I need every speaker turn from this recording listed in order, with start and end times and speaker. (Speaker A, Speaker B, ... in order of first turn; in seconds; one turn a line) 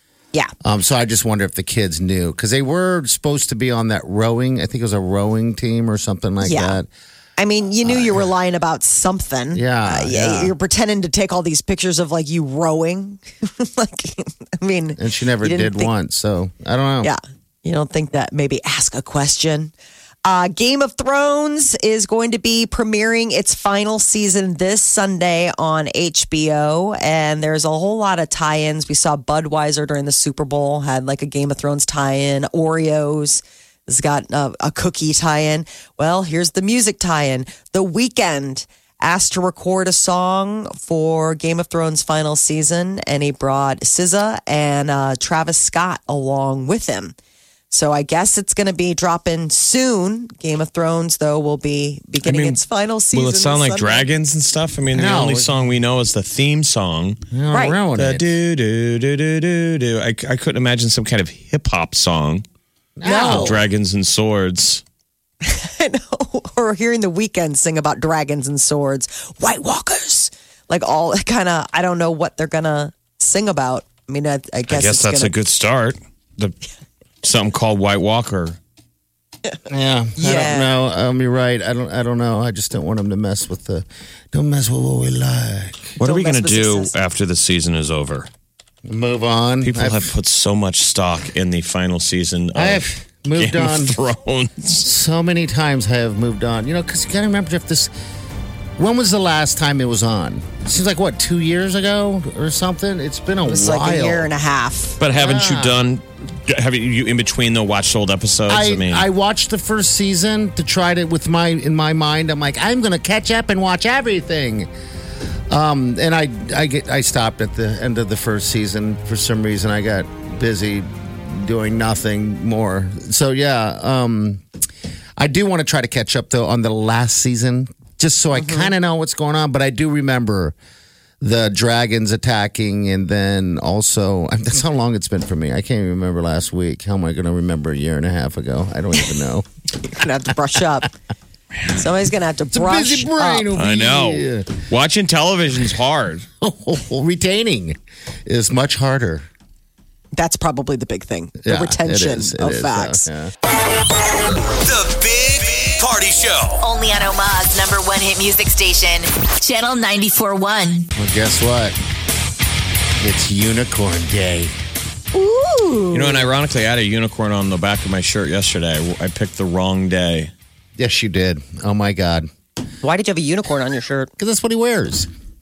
Speaker A: 0.6-6.9
Speaker B: 6.4-6.8
Speaker B: 7.4-15.9
Speaker A: 7.8-8.2
Speaker A: 9.5-10.5
Speaker A: 15.0-17.1
Speaker B: 17.0-19.7
Speaker B: 20.2-47.1
Speaker B: 47.7-54.1
Speaker C: 52.2-57.2
Speaker A: 54.9-55.5
Speaker A: 57.3-58.2
Speaker B: 57.5-57.8
Speaker C: 57.9-62.4
Speaker A: 63.0-63.6
Speaker B: 63.0-63.6
Speaker C: 63.2-64.8
Speaker B: 65.4-75.3
Speaker C: 74.7-76.5
Speaker C: 77.2-78.6
Speaker A: 79.7-85.9
Speaker B: 80.2-80.7
Speaker B: 86.0-86.9
Speaker C: 86.0-88.3
Speaker A: 88.8-90.1
Speaker C: 89.6-94.9
Speaker A: 92.5-94.0
Speaker A: 94.8-97.9
Speaker A: 98.8-104.3
Speaker B: 103.5-105.0
Speaker C: 105.0-109.0
Speaker A: 105.1-105.8
Speaker A: 108.5-114.7
Speaker A: 115.5-124.4
Speaker A: 125.2-130.5
Speaker B: 128.4-128.7
Speaker A: 131.2-139.4
Speaker B: 139.8-140.9
Speaker B: 141.7-143.5
Speaker A: 142.5-144.6
Speaker C: 143.5-146.3
Speaker A: 146.4-149.3
Speaker B: 150.1-153.1
Speaker A: 151.4-153.3
Speaker D: 154.5-156.6
Speaker E: 156.6-160.9
Speaker A: 160.9-161.8
Speaker A: 163.0-164.5
Speaker B: 165.1-166.3
Speaker C: 165.9-170.3
Speaker A: 170.8-172.3
Speaker B: 172.8-174.1
Speaker A: 174.2-175.1